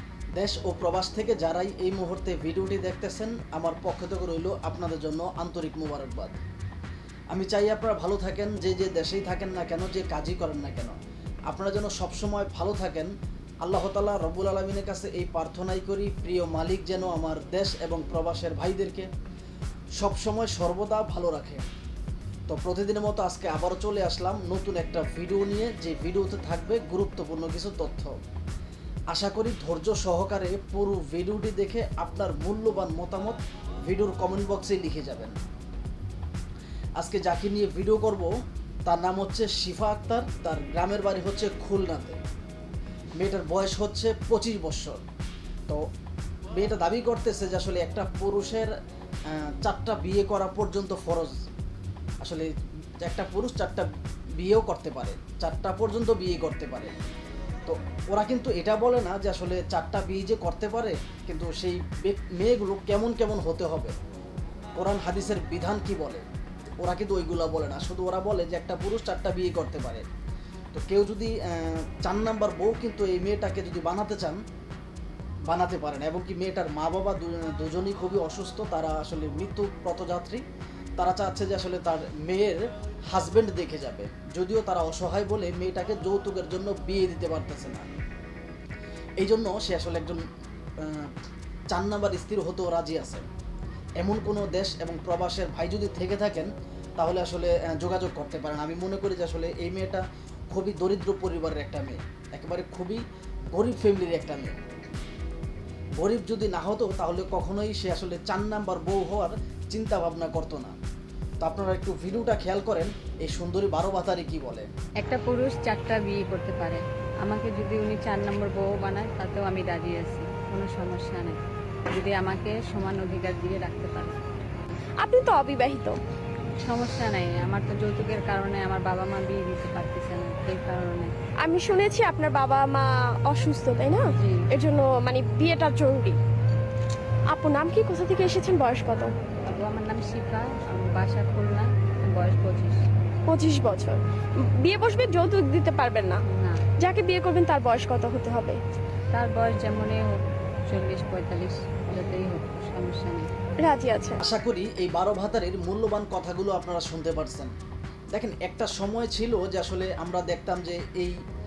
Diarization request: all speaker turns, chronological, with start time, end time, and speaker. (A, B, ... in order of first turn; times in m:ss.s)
0:00.4-0:06.4 A
0:07.3-0:10.9 A
0:11.5-0:13.1 A
0:13.6-0:19.1 A
0:20.0-0:21.6 A
0:22.5-0:28.1 A
0:29.1-0:35.4 A
0:37.0-0:38.3 A
0:38.9-0:42.2 A
0:43.2-0:45.0 A
0:46.5-0:48.7 A
0:49.3-0:51.4 A
0:52.2-0:52.5 A
0:53.0-0:56.9 A
0:57.6-1:03.9 A
1:04.8-1:06.2 A
1:06.8-1:10.0 A
1:10.7-1:14.4 A
1:15.5-1:20.4 A
1:21.0-1:27.8 A
1:29.2-1:30.2 A
1:30.8-1:31.1 A
1:31.7-1:33.2 A
1:34.0-1:43.0 A
1:43.5-1:44.6 A
1:46.0-1:50.7 A
1:51.4-1:54.7 A
1:55.0-2:04.2 B
2:05.0-2:06.0 C
2:06.6-2:11.1 B
2:11.4-2:16.2 C
2:14.1-2:14.5 B
2:17.3-2:19.1 C
2:19.4-2:22.8 B
2:23.3-2:24.0 C
2:24.6-2:26.2 C
2:26.2-2:26.6 B
2:26.8-2:28.6 C
2:29.1-2:33.3 B
2:33.6-2:34.2 C
2:34.2-2:37.5 A
2:38.1-2:41.2 A